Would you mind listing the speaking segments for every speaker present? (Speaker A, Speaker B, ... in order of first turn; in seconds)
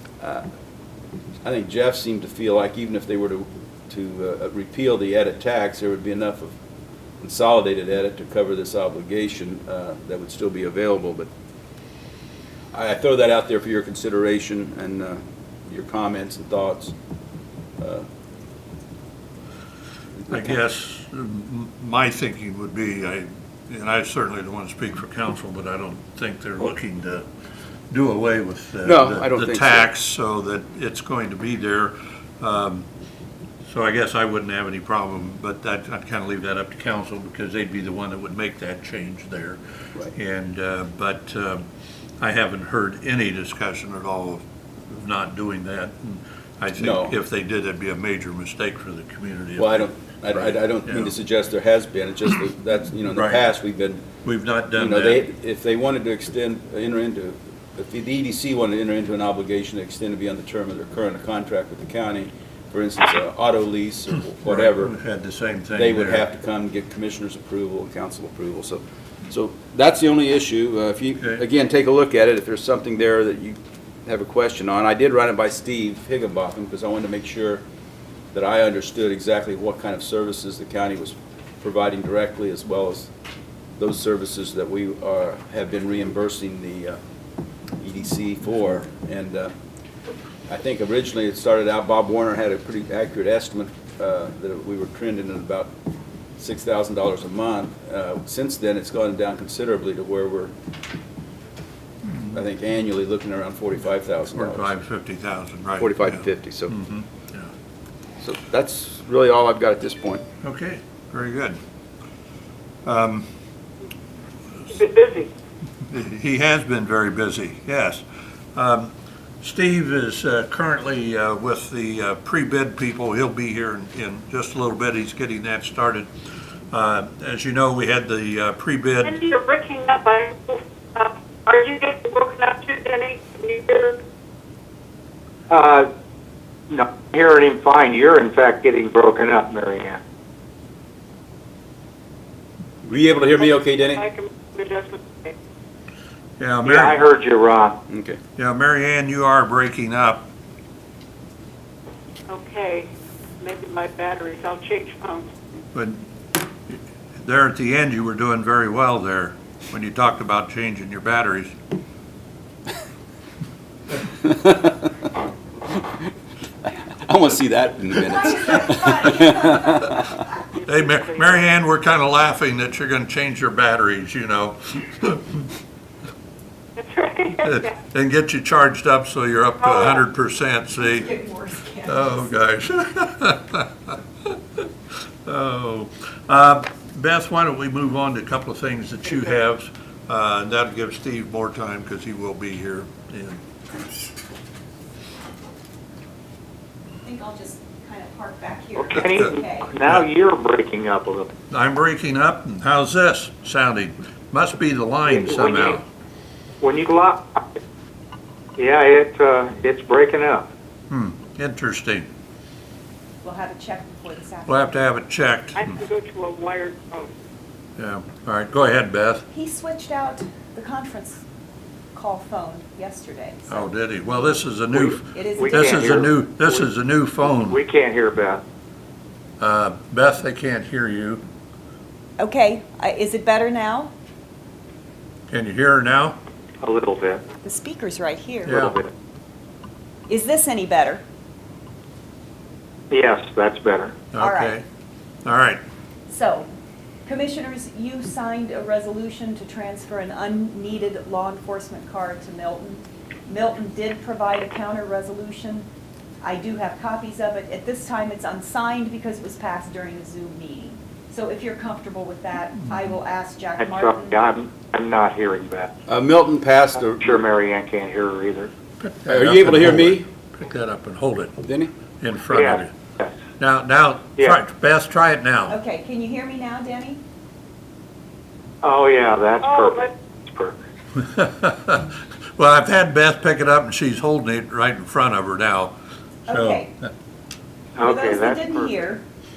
Speaker A: 1.4-6.5, 7.2-11.3, 12.7-16.9, 17.8-18.1, 28.8-29.9, 46.8-47.1, 49.6-54.0, 54.7-64.9, 65.7-77.6, 78.3-83.1, 83.8-87.0, 87.8-89.5, 90.5-95.7, 96.4-100.5, 102.3-104.8, 105.8-106.8, 108.2-110.2, 142.8-144.0, 147.9-148.2, 164.1-164.9, 166.7-170.2, 265.9-267.2, 269.1-270.1, 271.4-271.7
Speaker B: 20.3-27.2, 27.9-32.9, 33.6-39.6, 40.1-41.6, 42.2-51.1, 53.0-53.4, 54.2-55.2, 64.4-66.2, 102.0-102.4, 104.3-107.5, 110.4-111.6, 112.8-113.3, 115.9-118.0, 118.5-129.2, 146.4-147.0, 148.4-150.3, 155.7-156.0, 156.7-161.5, 170.6-175.5, 177.4-181.1, 181.8-184.7, 185.2-194.0, 199.0-200.0, 201.5-205.8, 210.9-212.1, 214.5-215.8, 217.8-219.2, 223.5-227.6, 229.4-231.2, 235.3-236.2, 238.4-238.8, 244.1-244.6, 245.2-245.6, 268.8-271.4, 272.0-272.7, 273.4-275.6, 280.9-285.7, 286.3-286.9
Speaker C: 115.0-115.3, 129.1-134.0, 144.2-145.3, 152.3-152.9, 153.4-155.2, 176.8-177.4, 215.7-217.1, 279.4-279.7
Speaker D: 135.5-135.9, 136.7-140.0, 146.6-147.8, 198.8-201.3, 205.1-205.8, 206.6-207.6, 208.6-210.5, 224.7-226.6, 227.4-228.4, 236.6-237.2, 238.4-238.9, 242.9-244.0, 263.6-265.7, 267.0-268.5, 272.3-273.1, 278.6-280.6, 287.8-288.7
Speaker E: 144.0-144.5, 154.9-155.2, 168.3-169.9, 180.9-182.2, 197.0-199.7, 213.2-214.9, 219.3-221.2, 221.9-223.7, 225.1-226.0, 232.2-233.9, 237.4-238.6, 240.1-241.0, 244.2-244.6, 246.1-246.5, 247.0-255.7, 256.2-264.2, 275.5-277.0, 286.3-286.7, 287.8-289.0